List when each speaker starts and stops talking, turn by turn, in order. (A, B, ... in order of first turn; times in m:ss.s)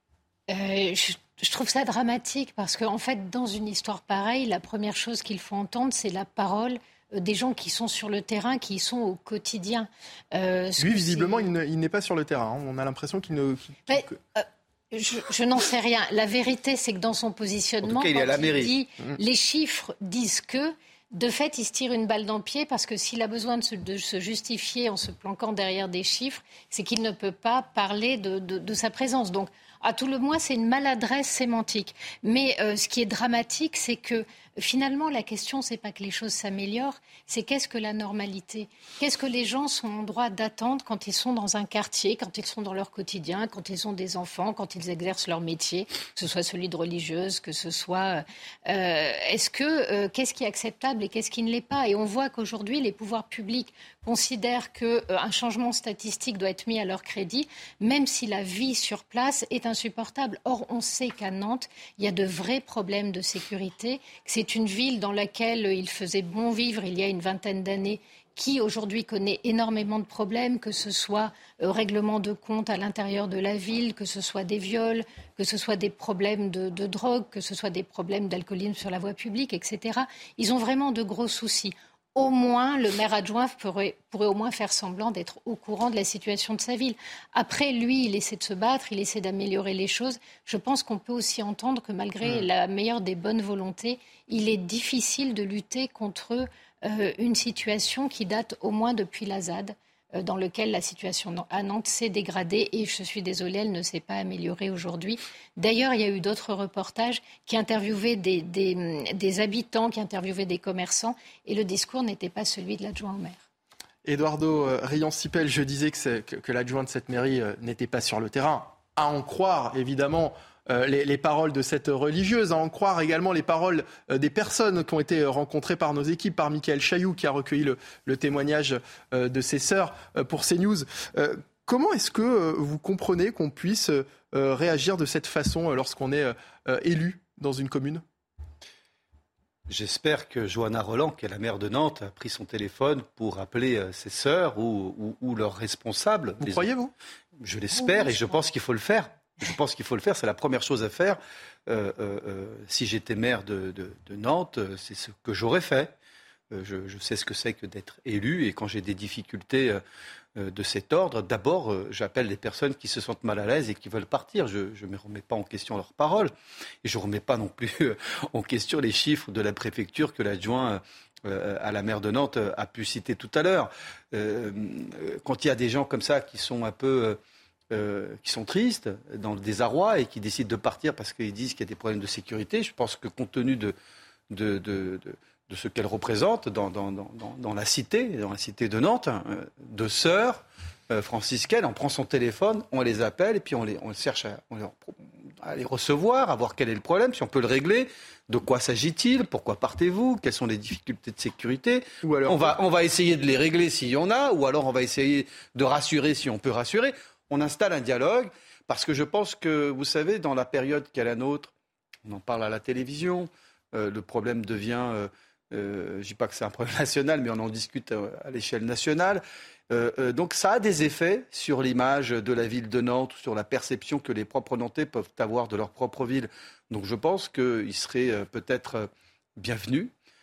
0:00.5-0:11.5 A
0:10.8-0:14.2 B
0:13.9-1:53.4 A
0:17.8-0:18.7 C
1:32.2-1:32.5 B
1:54.0-2:18.0 B
2:19.7-2:26.7 C
2:26.4-2:26.9 B
2:27.4-2:35.9 C
2:36.5-2:39.8 C
2:40.4-2:46.3 C
2:46.8-2:57.2 C
2:57.7-3:03.7 C
3:04.3-3:31.5 C
3:22.0-3:22.5 B
3:32.0-3:49.9 C